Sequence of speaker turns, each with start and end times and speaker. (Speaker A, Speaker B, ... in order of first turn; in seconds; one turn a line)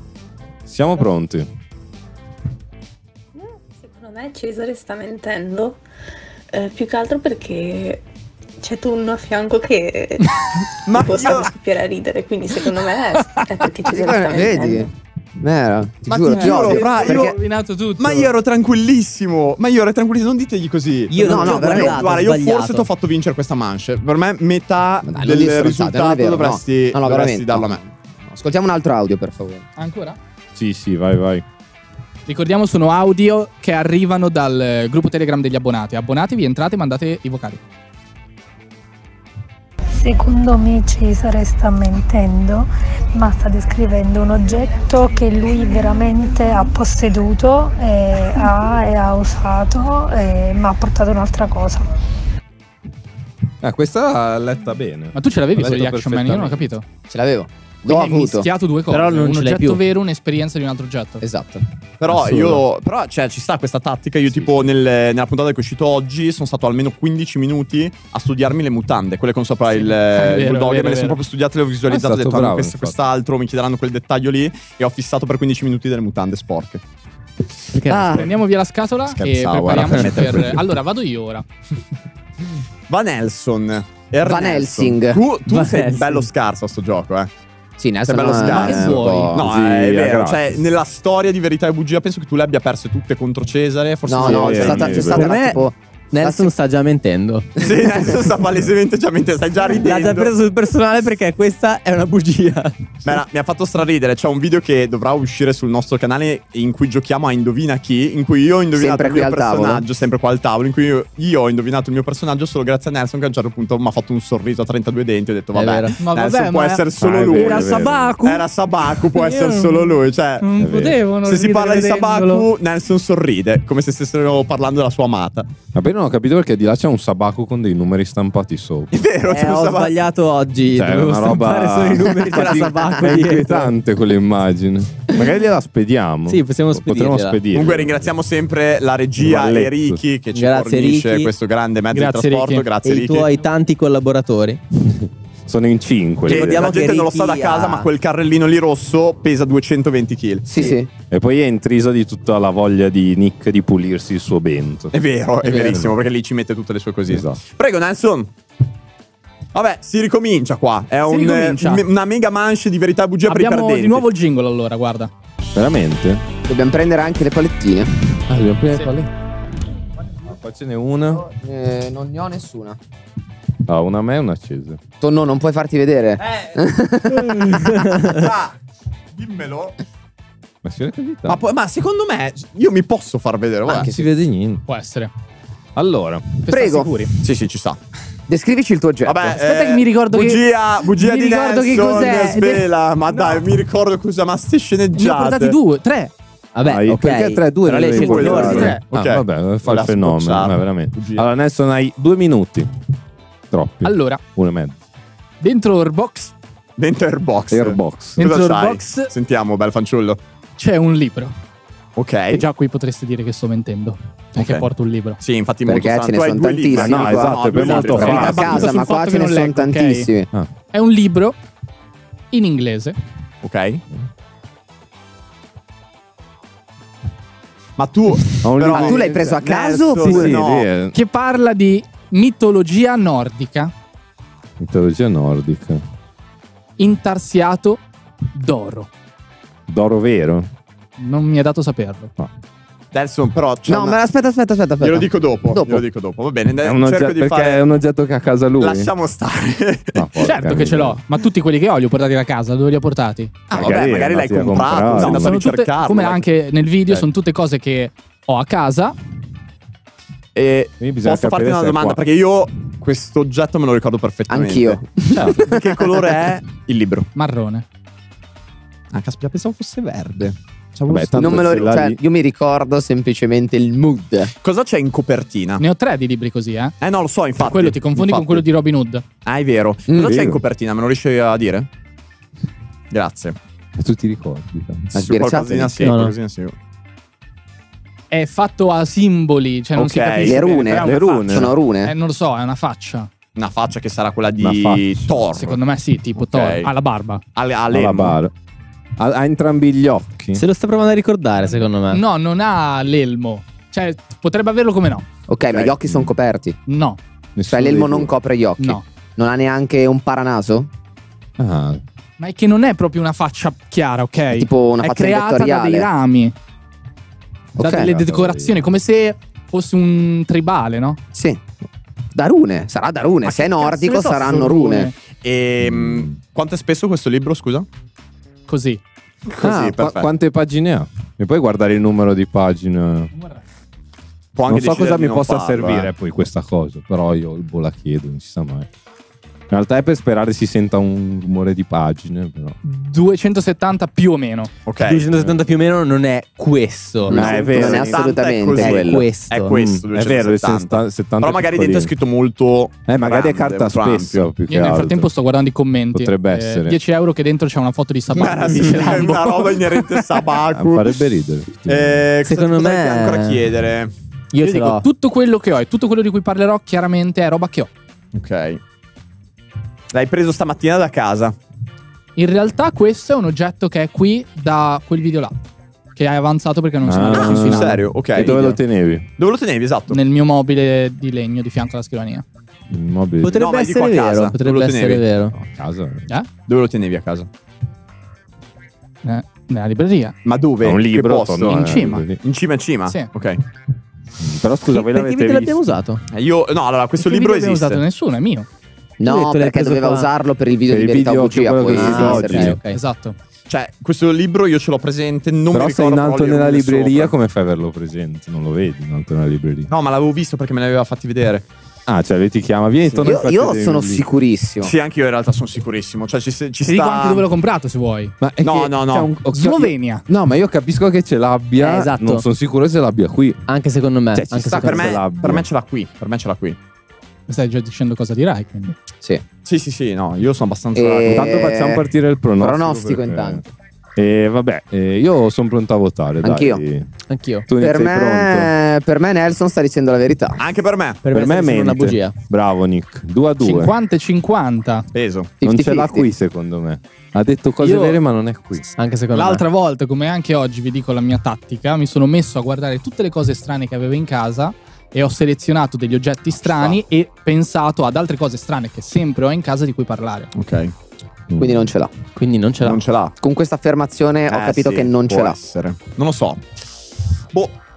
Speaker A: 0.7-1.5
Speaker B: 3.4-5.8
Speaker B: 6.5-8.0
Speaker B: 8.6-14.9
Speaker C: 10.8-11.5
Speaker D: 13.8-17.4
Speaker C: 16.1-17.3
Speaker E: 16.3-18.3
Speaker C: 18.0-27.8
Speaker F: 21.1-22.9
Speaker D: 21.2-22.1
Speaker D: 25.0-29.6
Speaker E: 29.8-30.2
Speaker A: 30.6-31.4
Speaker E: 32.3-37.6
Speaker G: 40.0-51.9
Speaker A: 53.6-56.6
Speaker E: 55.1-56.8
Speaker D: 57.1-58.5
Speaker E: 57.9-61.2
Speaker F: 58.9-59.8
Speaker D: 61.2-62.4
Speaker C: 62.0-76.8
Speaker E: 69.7-71.2
Speaker A: 71.9-73.0
Speaker F: 77.7-78.3
Speaker D: 77.9-78.3
Speaker E: 78.0-81.4
Speaker C: 79.1-80.6
Speaker F: 80.0-80.3
Speaker C: 82.9-87.3
Speaker D: 84.2-85.2
Speaker F: 85.5-86.3
Speaker D: 87.8-89.5
Speaker C: 88.1-95.2
Speaker E: 88.3-89.3
Speaker A: 89.3-90.5
Speaker D: 94.1-96.5
Speaker A: 94.2-95.6
Speaker F: 95.1-95.6
Speaker F: 96.1-97.5
Speaker C: 97.6-100.3
Speaker F: 99.7-103.2
Speaker C: 103.0-120.5
Speaker D: 108.7-109.8
Speaker F: 115.5-116.0
Speaker E: 116.0-118.5
Speaker A: 117.0-118.2
Speaker E: 119.1-122.5
Speaker A: 120.6-121.0
Speaker C: 121.2-125.5
Speaker A: 125.7-128.9
Speaker C: 128.9-129.9
Speaker F: 129.2-133.7
Speaker A: 130.7-138.1
Speaker F: 136.3-137.4
Speaker C: 137.5-143.3
Speaker A: 139.2-140.0
Speaker F: 140.3-141.3
Speaker E: 141.9-142.7
Speaker F: 142.8-144.6
Speaker A: 144.8-146.9
Speaker F: 146.2-147.9
Speaker C: 146.2-150.7
Speaker D: 150.5-150.9
Speaker A: 151.1-154.9
Speaker C: 154.9-158.3
Speaker D: 155.5-155.8
Speaker A: 157.1-157.4
Speaker C: 159.5-164.0
Speaker E: 161.1-161.8
Speaker E: 163.3-165.1
Speaker A: 165.5-166.2
Speaker D: 166.5-168.1
Speaker A: 168.3-169.1
Speaker A: 170.2-171.2
Speaker D: 171.2-172.8
Speaker A: 173.7-174.8
Speaker D: 175.0-178.2
Speaker F: 177.2-178.2
Speaker C: 178.2-178.5
Speaker C: 179.1-179.7
Speaker A: 180.6-181.4
Speaker C: 181.2-183.9
Speaker D: 183.7-184.0
Speaker A: 183.8-184.6
Speaker E: 184.7-185.1
Speaker A: 185.7-186.4
Speaker E: 186.4-187.1
Speaker D: 186.5-187.0
Speaker C: 187.2-187.8
Speaker D: 188.3-189.3
Speaker C: 189.0-195.6
Speaker E: 189.3-193.4
Speaker E: 194.9-196.1
Speaker F: 196.6-198.8
Speaker A: 196.6-202.7
Speaker C: 197.6-201.2
Speaker E: 198.5-198.8
Speaker A: 203.5-204.8
Speaker E: 203.8-204.2
Speaker E: 205.4-206.3
Speaker C: 206.8-210.2
Speaker A: 207.5-208.2
Speaker E: 208.2-209.1
Speaker E: 210.6-211.3
Speaker C: 211.9-212.4
Speaker E: 212.3-215.2
Speaker C: 214.3-214.7
Speaker C: 215.2-218.7
Speaker D: 215.7-220.3
Speaker A: 216.7-218.7
Speaker E: 218.1-220.1
Speaker E: 220.7-221.4
Speaker E: 222.3-222.9
Speaker C: 223.4-223.8
Speaker C: 227.8-230.7
Speaker A: 228.4-229.1
Speaker D: 228.7-230.4
Speaker A: 229.9-230.9
Speaker E: 230.9-233.7
Speaker A: 234.6-235.8
Speaker E: 236.8-237.8
Speaker E: 238.3-238.9
Speaker A: 239.7-240.5
Speaker E: 241.0-242.1
Speaker C: 242.9-244.0
Speaker D: 243.7-245.8
Speaker C: 244.8-247.6
Speaker A: 246.6-248.9
Speaker C: 248.6-250.1
Speaker A: 249.9-251.0
Speaker E: 250.2-253.3
Speaker A: 253.5-255.4
Speaker C: 253.5-256.2
Speaker E: 254.9-258.9
Speaker C: 260.3-267.1
Speaker A: 260.8-262.0
Speaker D: 264.3-266.1
Speaker E: 267.1-267.6
Speaker C: 268.9-271.7
Speaker A: 270.9-272.0
Speaker D: 271.1-274.3
Speaker C: 274.4-275.6
Speaker E: 275.6-276.7
Speaker C: 276.8-278.4
Speaker E: 277.4-279.0
Speaker C: 279.2-281.7
Speaker D: 279.9-280.3
Speaker A: 280.0-280.4
Speaker C: 282.9-283.4
Speaker A: 283.8-284.9
Speaker D: 284.9-285.9
Speaker C: 285.0-286.5
Speaker F: 285.8-286.1
Speaker E: 288.1-293.1
Speaker C: 289.8-290.5
Speaker D: 290.2-291.9
Speaker A: 290.7-291.5
Speaker C: 293.4-295.6
Speaker A: 294.4-295.2
Speaker E: 295.4-297.2
Speaker C: 296.1-296.7
Speaker C: 297.3-298.1
Speaker A: 297.7-298.3
Speaker A: 299.0-300.4
Speaker F: 300.4-302.0
Speaker E: 301.9-305.0
Speaker D: 305.3-306.6
Speaker A: 305.8-306.1
Speaker E: 306.7-307.0
Speaker A: 307.4-308.1
Speaker D: 307.5-310.7
Speaker A: 311.4-311.8
Speaker E: 312.2-316.3
Speaker D: 314.3-315.9
Speaker D: 317.6-317.9
Speaker E: 317.6-321.0
Speaker A: 317.7-318.6
Speaker D: 321.1-321.4
Speaker D: 322.1-324.9
Speaker E: 323.2-324.9
Speaker C: 325.2-327.7
Speaker A: 325.6-326.1
Speaker E: 328.5-328.8
Speaker C: 329.3-330.1
Speaker A: 329.4-333.1
Speaker C: 334.4-335.9
Speaker A: 334.5-338.7
Speaker A: 339.5-342.6
Speaker E: 342.6-344.5
Speaker C: 344.6-345.1
Speaker F: 344.8-347.4
Speaker A: 347.1-348.1
Speaker D: 347.1-349.0
Speaker C: 347.1-354.3
Speaker F: 348.6-349.5
Speaker A: 349.5-351.9
Speaker A: 352.9-355.1
Speaker E: 354.5-360.0
Speaker A: 355.9-356.8
Speaker C: 358.1-361.1
Speaker A: 360.5-362.1
Speaker C: 361.6-363.9
Speaker F: 362.2-363.4
Speaker F: 364.3-364.8
Speaker E: 364.4-367.7
Speaker C: 368.1-368.6
Speaker C: 369.9-371.4
Speaker E: 372.2-375.3
Speaker E: 375.9-377.8
Speaker A: 376.8-379.0
Speaker C: 377.1-378.6
Speaker F: 378.2-378.6
Speaker C: 379.2-380.0
Speaker E: 379.9-382.2
Speaker A: 382.7-383.4
Speaker F: 383.2-385.3
Speaker C: 383.3-385.0
Speaker A: 385.3-386.1
Speaker C: 386.5-387.3
Speaker E: 389.0-390.1
Speaker C: 390.2-393.4
Speaker A: 390.6-392.2
Speaker E: 391.5-392.1
Speaker A: 394.2-395.5
Speaker F: 394.7-396.0
Speaker C: 396.1-397.8
Speaker E: 397.0-398.5
Speaker D: 399.0-402.5
Speaker F: 399.0-400.1
Speaker A: 400.7-402.6
Speaker F: 401.7-402.8
Speaker E: 402.7-403.2
Speaker C: 403.5-407.1
Speaker A: 405.5-409.7
Speaker C: 409.7-411.5
Speaker A: 411.9-414.0
Speaker D: 413.0-414.7
Speaker C: 414.6-417.2
Speaker E: 416.6-418.1
Speaker A: 418.2-423.4
Speaker C: 418.4-419.1
Speaker E: 418.9-420.1
Speaker F: 421.6-422.2
Speaker F: 423.5-425.0
Speaker A: 424.1-425.4
Speaker C: 424.6-426.6
Speaker E: 427.3-428.7
Speaker C: 429.4-431.4
Speaker D: 430.7-431.9
Speaker A: 431.0-433.4
Speaker D: 432.4-433.4
Speaker A: 434.0-436.9
Speaker D: 436.2-436.6
Speaker F: 437.1-437.4
Speaker A: 437.5-438.5
Speaker D: 437.6-440.4
Speaker C: 440.4-441.0
Speaker F: 441.0-442.1
Speaker A: 441.1-443.7
Speaker E: 443.4-444.8
Speaker C: 444.9-445.3
Speaker D: 445.4-446.1
Speaker A: 445.4-448.6
Speaker E: 447.6-447.9
Speaker F: 448.7-449.4
Speaker E: 449.1-460.3
Speaker C: 456.4-456.8
Speaker C: 460.3-460.7
Speaker A: 461.3-461.7
Speaker D: 461.4-461.9
Speaker F: 462.1-462.8
Speaker C: 462.6-463.1
Speaker D: 463.2-465.4
Speaker C: 464.3-466.5